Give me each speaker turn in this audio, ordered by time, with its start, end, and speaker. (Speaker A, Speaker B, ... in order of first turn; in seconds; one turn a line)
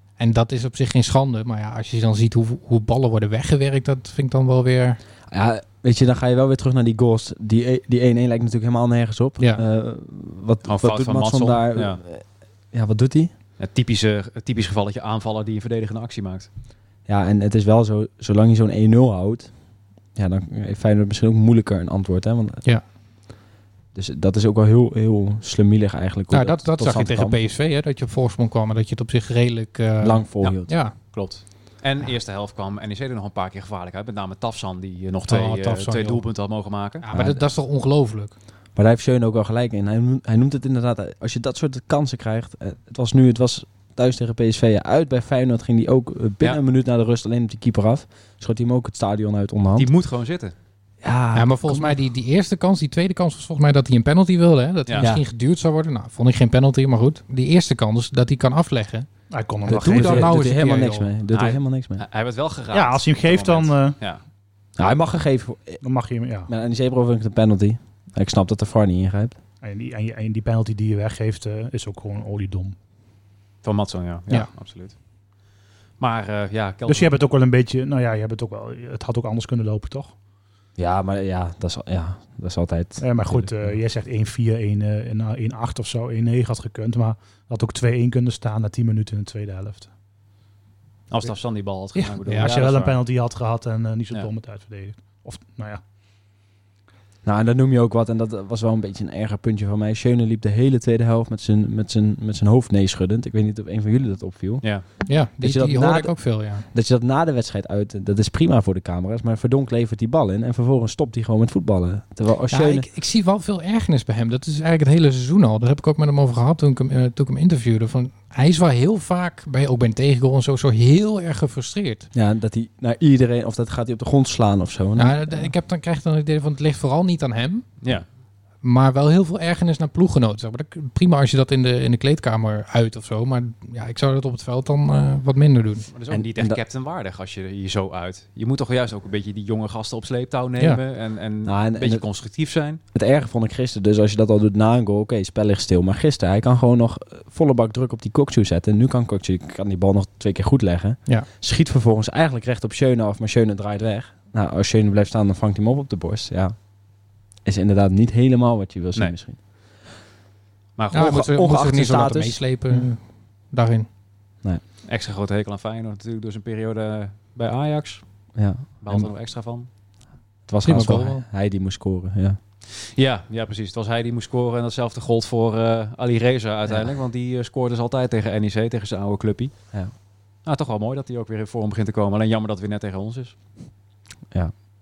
Speaker A: 0.2-5.0
Speaker B: 5.3-13.3
Speaker C: 10.6-12.0
Speaker C: 13.6-16.5
Speaker B: 17.1-19.5
Speaker B: 20.1-22.6
Speaker B: 23.9-27.4
Speaker A: 26.3-30.9
Speaker B: 30.0-30.7
Speaker C: 30.4-37.0
Speaker A: 35.3-36.2
Speaker A: 37.0-38.3
Speaker B: 37.1-37.4
Speaker B: 38.8-49.9
Speaker C: 49.8-50.5
Speaker B: 51.0-52.0
Speaker A: 51.3-59.1
Speaker D: 59.3-60.4
Speaker A: 59.7-61.1
Speaker B: 59.7-62.0
Speaker C: 61.3-64.2
Speaker D: 62.7-64.0
Speaker B: 64.8-65.8
Speaker D: 65.8-66.5
Speaker B: 66.5-69.3
Speaker D: 69.6-72.8
Speaker C: 73.6-74.9
Speaker C: 76.0-77.1
Speaker D: 76.9-80.1
Speaker B: 80.8-83.7
Speaker D: 83.0-89.9
Speaker C: 91.1-93.0
Speaker D: 92.0-95.8
Speaker A: 92.2-92.5
Speaker B: 97.2-104.7
Speaker A: 105.1-106.7
Speaker B: 105.4-112.9
Speaker A: 112.5-122.1
Speaker B: 122.1-125.5
Speaker A: 125.0-127.7
Speaker A: 128.6-135.9
Speaker C: 135.9-142.8
Speaker B: 136.1-136.6
Speaker B: 141.4-142.0
Speaker B: 142.9-156.6
Speaker B: 157.4-159.4
Speaker C: 160.8-161.2
Speaker A: 160.9-163.9
Speaker B: 160.9-162.9
Speaker C: 164.9-168.0
Speaker B: 168.3-169.1
Speaker C: 168.8-169.7
Speaker B: 170.5-172.4
Speaker A: 170.6-171.2
Speaker C: 172.8-179.5
Speaker C: 180.4-183.3